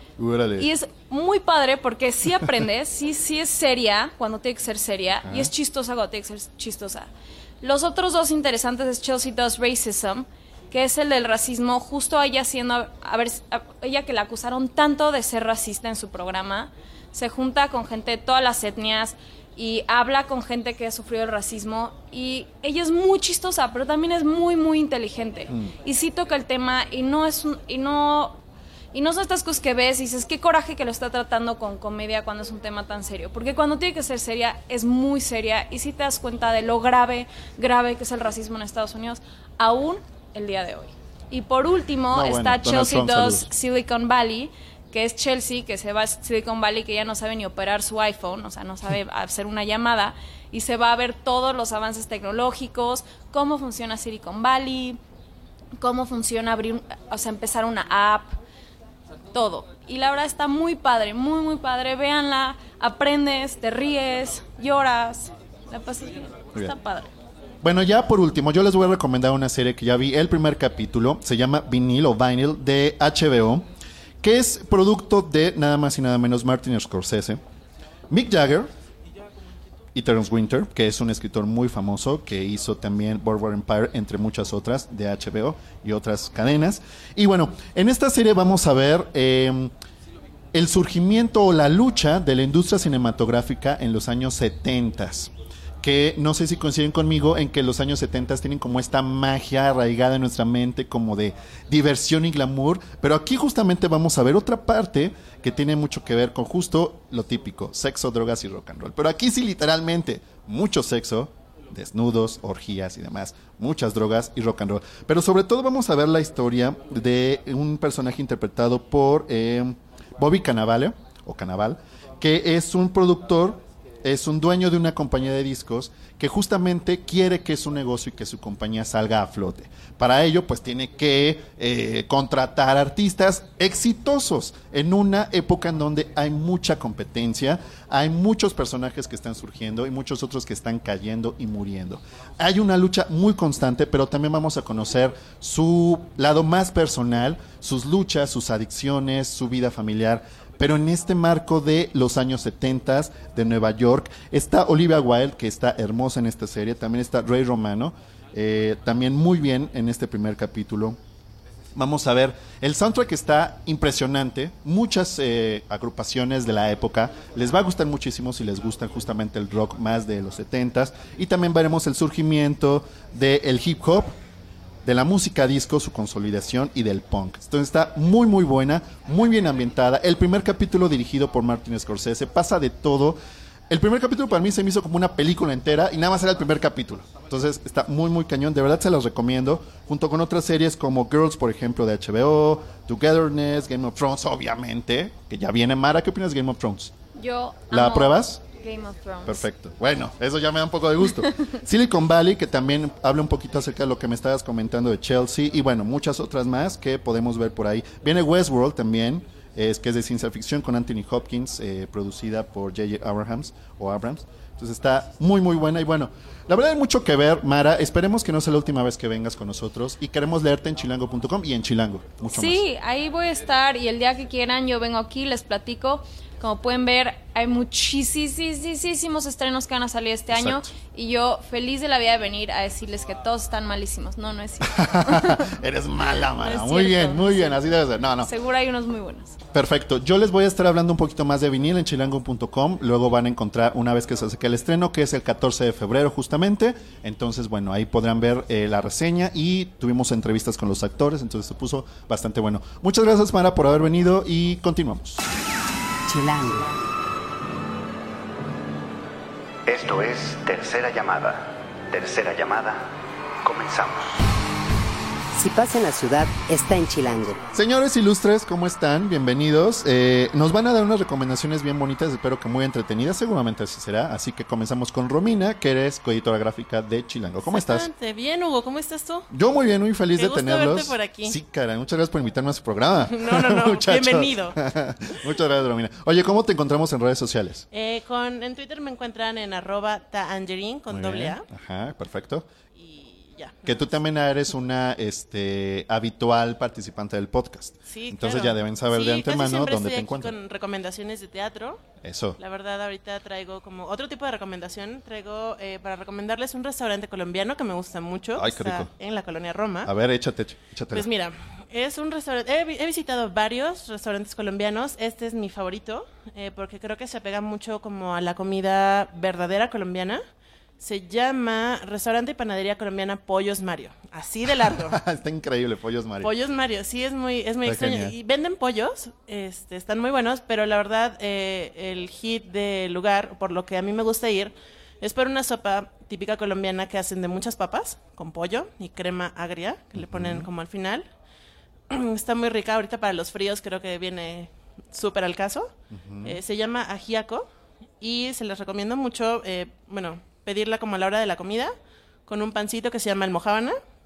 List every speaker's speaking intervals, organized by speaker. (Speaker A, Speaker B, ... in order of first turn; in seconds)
Speaker A: 0.2-0.7, 2.3-2.6, 5.2-5.5, 42.1-43.5, 67.6-73.7, 74.2-77.4, 78.1-78.7, 79.9-89.7, 90.5-161.0, 161.7-174.2, 174.8-196.9, 197.7-198.4, 199.2-222.6, 230.3-230.7, 234.6-238.3, 239.5-255.2, 267.5-277.9, 279.3-287.6, 290.9-292.5, 293.6-300.3, 302.0-302.4, 308.4-308.9, 309.8-311.1, 324.6-326.3, 327.6-328.1, 339.9-340.5, 345.9-346.4
Speaker B: 0.6-7.1, 7.6-28.4, 28.9-55.0, 55.8-58.4, 59.3-67.1, 197.1-199.5, 222.3-235.5, 236.4-237.6, 238.2-239.4
Speaker C: 256.1-256.7, 265.3-267.4
Speaker D: 259.6-264.3
Speaker E: 277.4-279.3, 280.2-281.4, 283.1-284.6, 287.7-291.4, 292.8-293.9, 297.9-301.9, 302.4-309.9, 310.9-320.2, 320.8-325.0, 326.2-341.1, 341.9-347.5, 348.0-351.7, 352.3-353.8